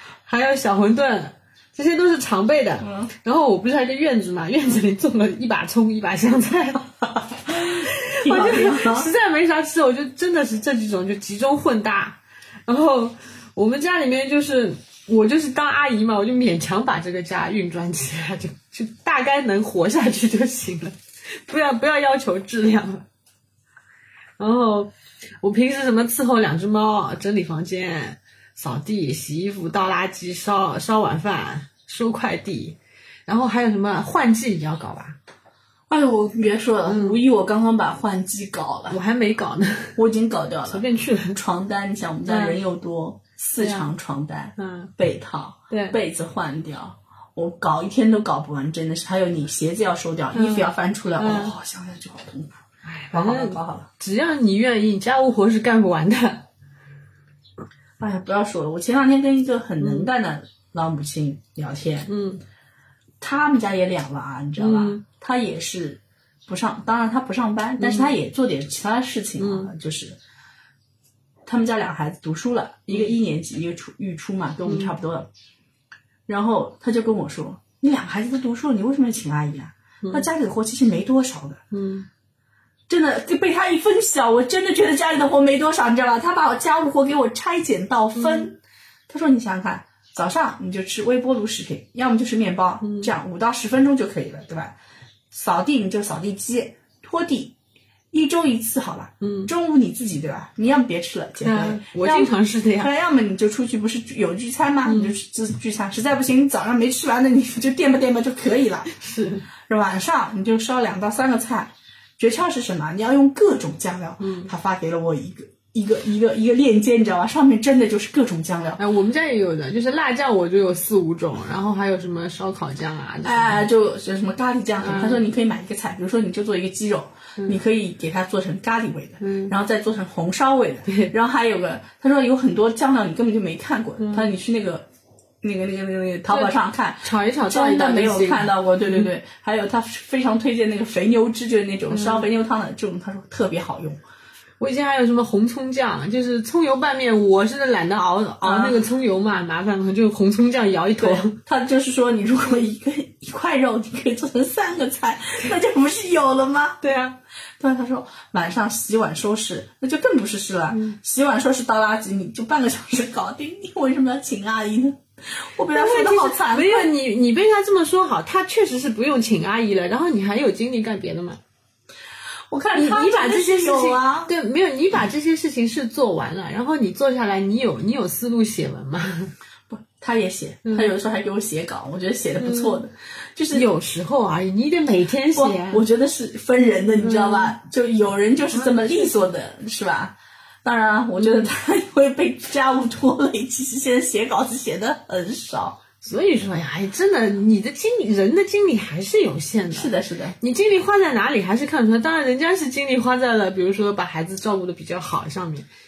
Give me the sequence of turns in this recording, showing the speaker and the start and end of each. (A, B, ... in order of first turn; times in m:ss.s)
0:00.2-0:06.8 A
0:02.8-0:03.1 B
0:07.5-0:09.1 B
0:07.5-0:23.0 A
0:24.4-0:35.2 A
0:35.9-0:39.0 B
0:36.8-0:37.2 A
0:38.9-0:40.0 A
0:40.0-0:52.6 B
0:40.7-0:41.4 A
0:42.3-0:42.6 A
0:43.6-0:43.9 A
0:44.6-0:44.9 A
0:45.7-0:46.0 A
0:50.3-0:51.5 A
0:52.8-0:56.4 A
0:53.1-0:53.9 B
0:58.0-1:02.1 B
0:59.8-1:00.1 A
1:02.1-1:02.4 A
1:03.2-1:10.2 B
1:04.6-1:05.0 A
1:07.8-1:08.1 A
1:09.4-1:09.7 A
1:11.4-1:15.3 B
1:14.6-1:14.9 A
1:16.3-1:21.6 B
1:21.7-1:22.1 A
1:22.9-1:34.7 B
1:32.8-1:33.1 A
1:35.3-1:37.5 B
1:38.1-1:48.9 B
1:39.2-1:39.5 A
1:41.4-1:42.9 A
1:44.8-1:45.1 A
1:48.9-1:49.4 A
1:49.7-1:58.8 B
1:54.2-1:54.5 A
1:58.8-2:03.6 A
2:03.2-2:14.8 B
2:04.8-2:05.2 A
2:09.2-2:09.5 A
2:10.9-2:11.1 A
2:14.0-2:14.3 A
2:15.4-2:24.0 B
2:16.3-2:19.1 A
2:21.9-2:22.2 A
2:24.6-2:31.3 A
2:28.4-2:28.8 B
2:31.0-2:36.8 B
2:36.8-2:37.2 A
2:37.6-2:46.9 B
2:40.7-2:41.0 A
2:45.7-2:51.4 A
2:52.5-2:54.3 B
2:52.7-2:59.3 A
2:59.7-3:03.7 B
3:00.6-3:00.9 A
3:02.4-3:02.8 A
3:03.5-3:05.8 A
3:05.3-3:15.8 B
3:07.0-3:07.5 A
3:11.2-3:11.5 A
3:16.0-3:25.7 A
3:19.7-3:20.4 B